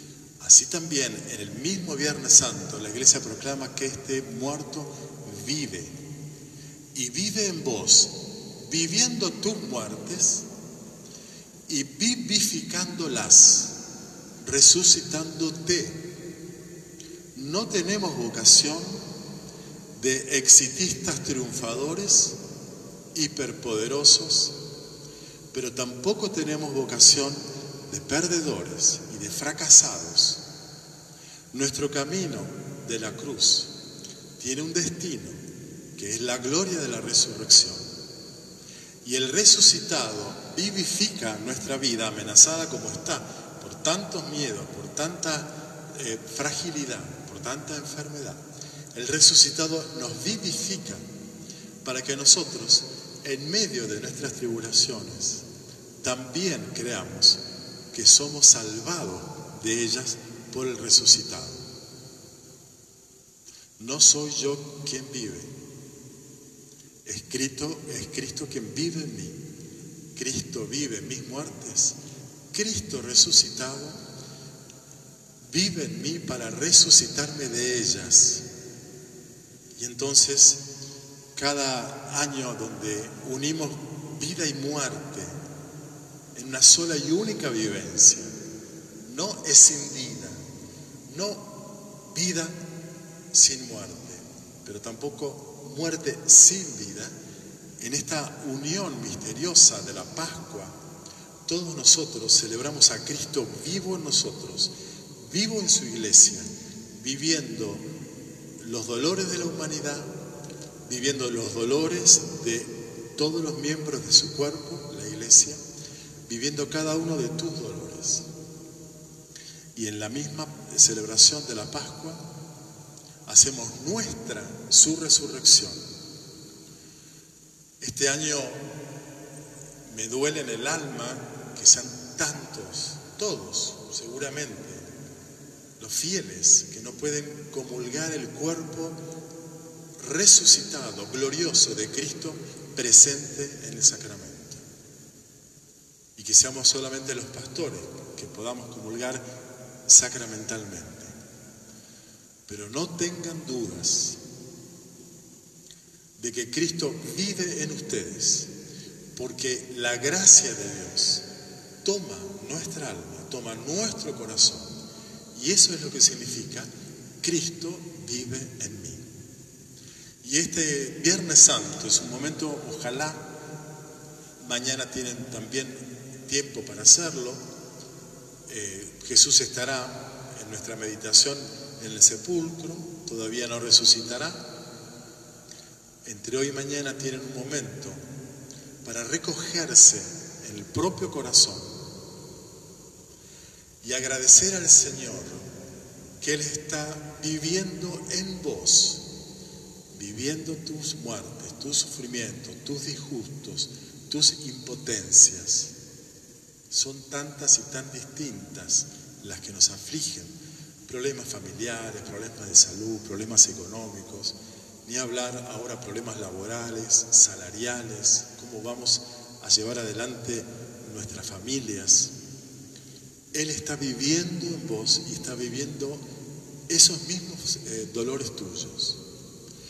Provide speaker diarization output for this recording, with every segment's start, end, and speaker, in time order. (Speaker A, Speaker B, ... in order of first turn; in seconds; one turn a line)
Speaker A: 0.4-6.0
Speaker A: 6.9-10.5
Speaker A: 11.7-13.8
Speaker A: 14.4-16.0
Speaker A: 17.3-19.0
Speaker A: 19.9-22.4
Speaker A: 23.1-24.6
Speaker A: 25.5-30.4
Speaker A: 31.5-33.7
Speaker A: 34.4-35.4
Speaker A: 35.9-37.9
Speaker A: 39.0-51.0
Speaker A: 51.8-55.4
Speaker A: 56.0-61.6
Speaker A: 63.8-65.5
Speaker A: 67.0-69.4
Speaker A: 70.1-72.0
Speaker A: 72.5-74.0
Speaker A: 75.4-78.4
Speaker A: 79.8-80.6
Speaker A: 81.3-85.4
Speaker A: 86.3-88.3
Speaker A: 89.0-90.4
Speaker A: 91.0-92.6
Speaker A: 93.3-97.1
Speaker A: 97.8-100.7
Speaker A: 101.5-107.8
Speaker A: 108.6-110.1
Speaker A: 110.8-115.6
Speaker A: 116.3-118.3
Speaker A: 119.7-122.2
Speaker A: 123.2-125.8
Speaker A: 127.8-128.7
Speaker A: 129.8-134.9
Speaker A: 135.8-139.0
Speaker A: 140.0-144.6
Speaker A: 146.2-149.3
Speaker A: 149.8-151.1
Speaker A: 152.5-154.2
Speaker A: 156.2-158.5
Speaker A: 159.1-161.2
Speaker A: 161.8-164.7
Speaker A: 165.3-166.7
Speaker A: 167.2-169.0
Speaker A: 170.2-173.3
Speaker A: 174.4-177.4
Speaker A: 178.5-184.5
Speaker A: 186.0-188.0
Speaker A: 188.8-191.7
Speaker A: 193.8-195.5
Speaker A: 196.2-199.0
Speaker A: 199.9-205.7
Speaker A: 206.7-210.3
Speaker A: 210.9-222.1
Speaker A: 223.3-226.0
Speaker A: 226.7-229.0